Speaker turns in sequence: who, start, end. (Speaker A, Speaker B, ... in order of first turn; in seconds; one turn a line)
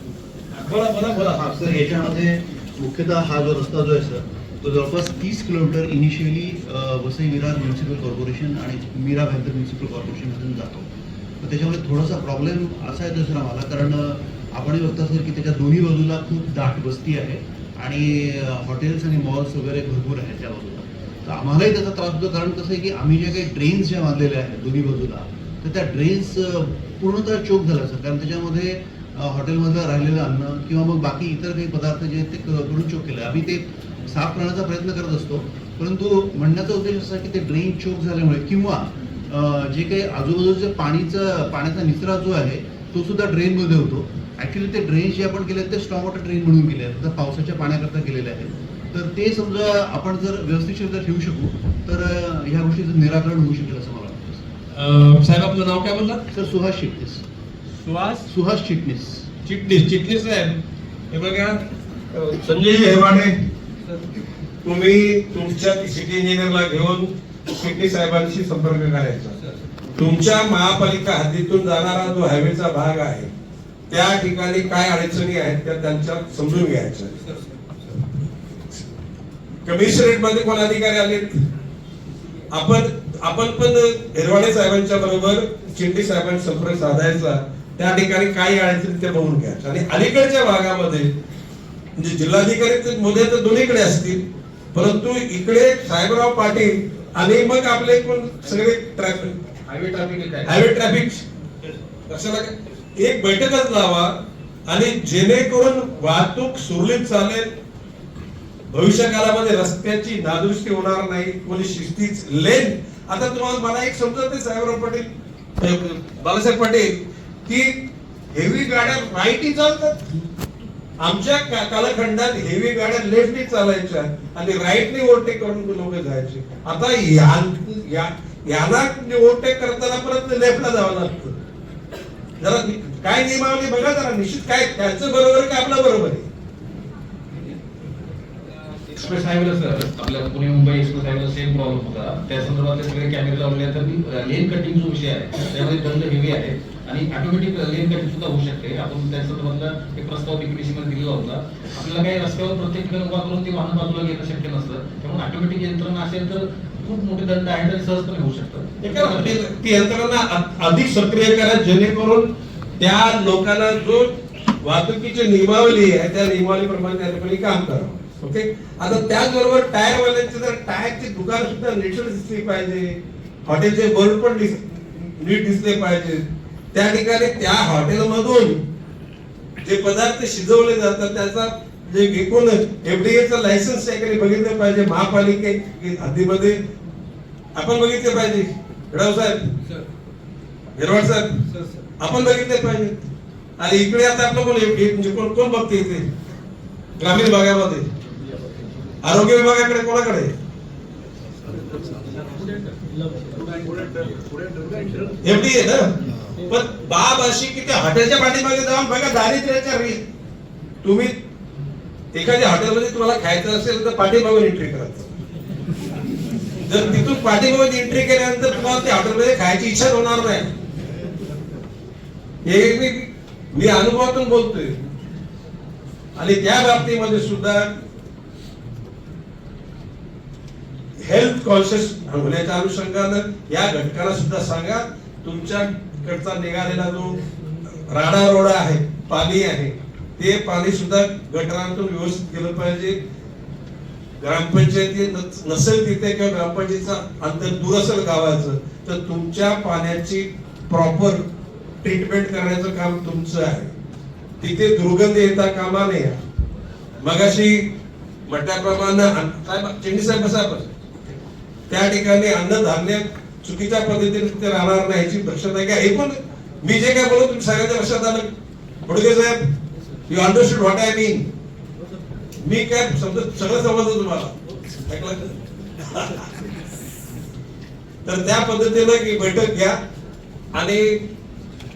Speaker A: 0.5-1.4
Speaker B: 1.2-54.4
Speaker A: 54.7-56.2
Speaker B: 56.3-57.2
Speaker A: 57.8-58.3
Speaker B: 58.2-59.3
Speaker A: 59.4-60.6
Speaker A: 61.1-63.4
Speaker A: 64.6-69.4
Speaker A: 70.0-73.3
Speaker A: 73.9-77.2
Speaker A: 79.6-81.5
Speaker A: 82.5-91.1
Speaker A: 92.0-99.4
Speaker C: 99.7-100.5
Speaker A: 100.4-101.2
Speaker A: 102.1-107.5
Speaker A: 108.7-120.1
Speaker A: 121.0-131.4
Speaker A: 132.4-136.3
Speaker C: 138.9-159.3
Speaker A: 158.8-178.6
Speaker A: 179.6-186.6
Speaker A: 187.5-189.6
Speaker A: 190.8-191.4
Speaker A: 192.0-193.1
Speaker A: 193.6-196.1
Speaker A: 197.0-197.9
Speaker A: 199.0-200.3
Speaker C: 202.0-202.4
Speaker C: 203.1-205.0
Speaker A: 205.2-205.9
Speaker A: 206.5-210.0
Speaker A: 210.8-211.2
Speaker A: 212.1-215.1
Speaker A: 216.7-220.5
Speaker A: 222.4-224.8
Speaker A: 226.2-227.7
Speaker A: 231.0-237.2
Speaker A: 237.9-243.0
Speaker A: 244.2-251.3
Speaker A: 251.8-253.8
Speaker A: 254.4-256.2
Speaker A: 257.0-257.7
Speaker A: 258.3-260.7
Speaker A: 261.7-268.3
Speaker A: 268.9-269.5
Speaker A: 270.1-271.3
Speaker A: 272.4-274.3
Speaker A: 274.9-276.4
Speaker A: 278.0-279.8
Speaker A: 280.5-281.0